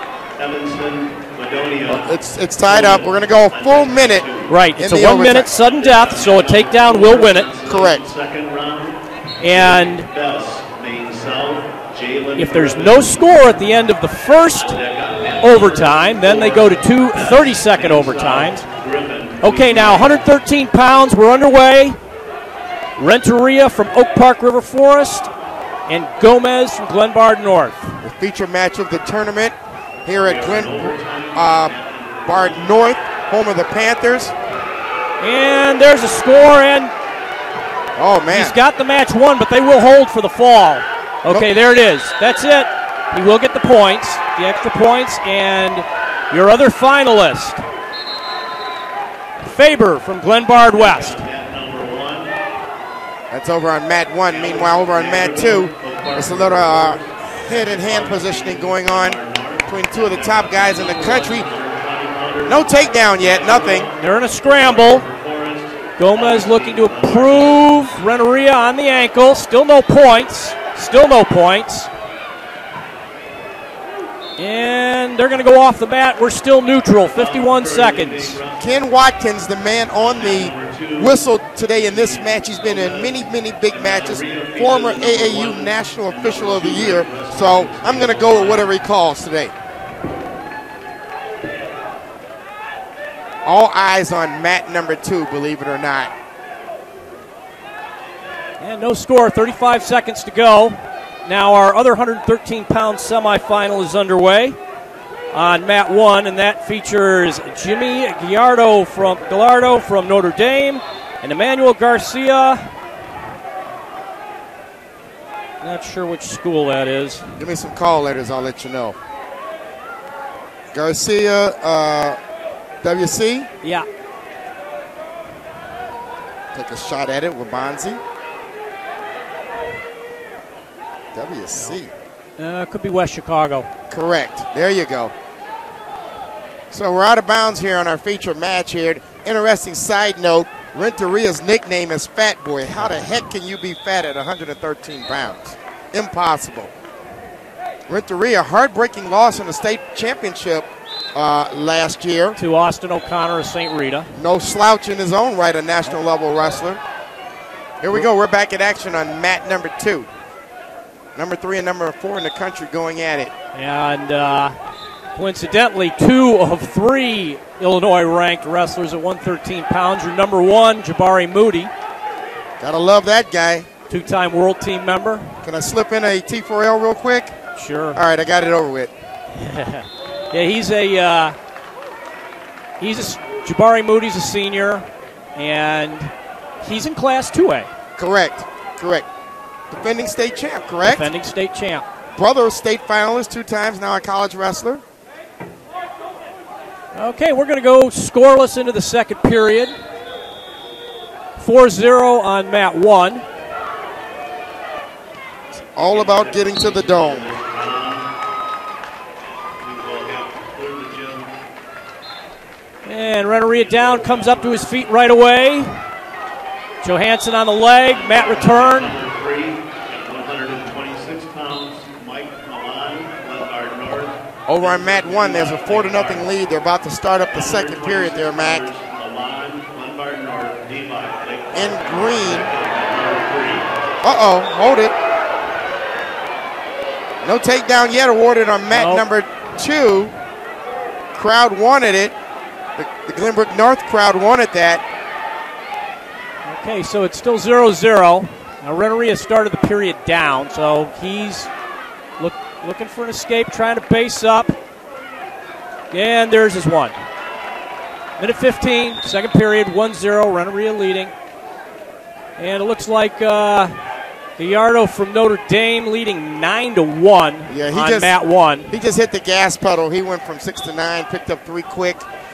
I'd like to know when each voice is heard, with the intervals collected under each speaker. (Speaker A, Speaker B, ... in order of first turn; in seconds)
Speaker A: 0.4-2.1, 2.6-4.5, 5.5-9.0, 9.5-13.5, 14.5-20.2, 30.2-33.0, 50.6-52.3, 54.3-67.7, 77.1-78.7, 80.0-81.2, 81.8-88.8, 205.9-208.0, 209.6-211.3, 213.3-214.7, 217.8-226.3, 227.3-233.7
Speaker B: 1.9-4.2, 4.8-5.5, 7.7-8.0, 28.0-31.7, 32.2-34.3, 38.0-38.6, 53.3-61.5, 62.5-63.9, 78.6-89.5, 93.4-96.1, 117.4-119.0, 120.7-122.2, 122.8-123.5, 126.5-128.0, 131.1-131.9, 133.9-135.1, 136.7-146.7, 147.9-152.4, 154.2-156.8, 157.8-160.1, 161.2-163.3, 172.6-173.7, 175.4-177.3, 177.9-178.9, 188.0-189.1, 189.7-191.1, 192.2-194.8, 205.5-207.3, 224.5-228.7, 231.5-232.5, 234.0-234.9, 237.2-240.1, 241.1-242.1, 242.8-244.8, 267.5-268.1, 268.7-272.1
Speaker C: 4.5-7.5, 9.4-10.1, 12.3-14.8, 15.4-18.6, 19.4-22.0, 23.0-25.3, 25.9-28.0, 35.2-36.9, 38.3-47.6, 49.4-51.2, 64.0-65.0, 66.0-71.9, 74.4-78.4, 98.6-104.6, 105.3-112.6, 115.6-117.3, 131.5-131.8, 132.4-133.7, 152.4-154.1, 163.5-164.5, 165.1-171.7, 173.9-175.3, 177.5-178.0, 179.3-181.3, 182.8-184.8, 185.3-187.7, 190.8-191.8, 196.9-199.7, 201.4-203.2, 212.8-215.8, 216.8-219.0, 238.7-239.0, 246.4-251.5, 252.2-254.6, 255.9-257.0, 258.2-261.1, 262.4-263.7, 264.4-268.7